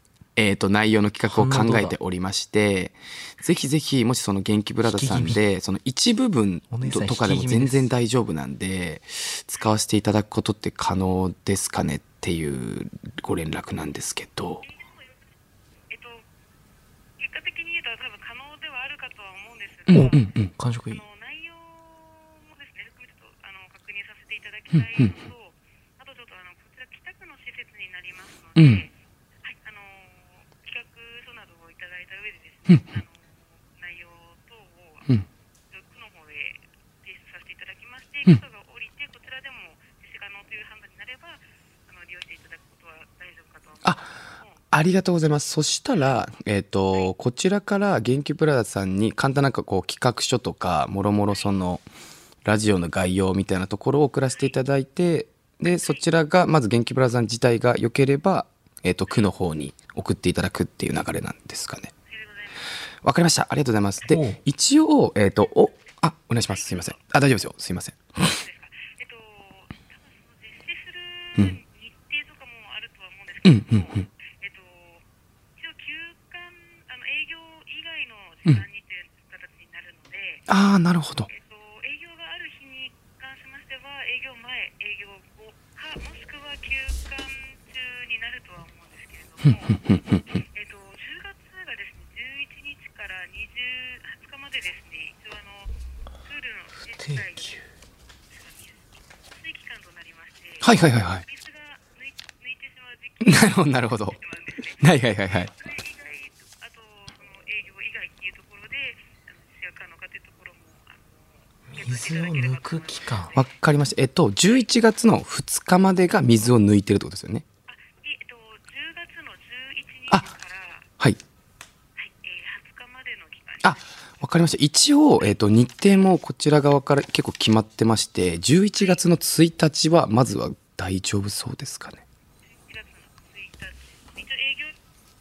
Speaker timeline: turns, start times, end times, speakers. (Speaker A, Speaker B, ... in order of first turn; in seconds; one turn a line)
Speaker A: 0.4-14.6
Speaker B: 1.3-2.0
Speaker B: 4.9-5.4
Speaker B: 6.7-7.9
Speaker C: 14.6-15.2
Speaker C: 15.9-16.2
Speaker C: 17.2-20.3
Speaker A: 19.9-20.5
Speaker B: 19.9-21.0
Speaker C: 20.9-28.9
Speaker A: 24.7-25.1
Speaker A: 28.6-28.8
Speaker C: 29.4-44.6
Speaker A: 43.8-44.1
Speaker A: 44.7-51.8
Speaker A: 52.4-61.9
Speaker C: 62.1-62.6
Speaker A: 63.0-68.4
Speaker B: 64.1-64.4
Speaker C: 68.2-75.0
Speaker A: 73.4-74.0
Speaker C: 75.6-80.5
Speaker A: 80.5-81.3
Speaker C: 81.3-95.7
Speaker A: 89.4-90.2
Speaker C: 96.2-97.6
Speaker B: 97.0-97.6
Speaker C: 98.3-113.5
Speaker A: 100.6-101.2
Speaker A: 103.2-104.2
Speaker A: 104.8-105.5
Speaker B: 111.7-113.3
Speaker A: 113.3-117.4
Speaker C: 117.7-120.9
Speaker C: 122.0-123.8
Speaker A: 123.6-132.0
Speaker C: 132.5-134.8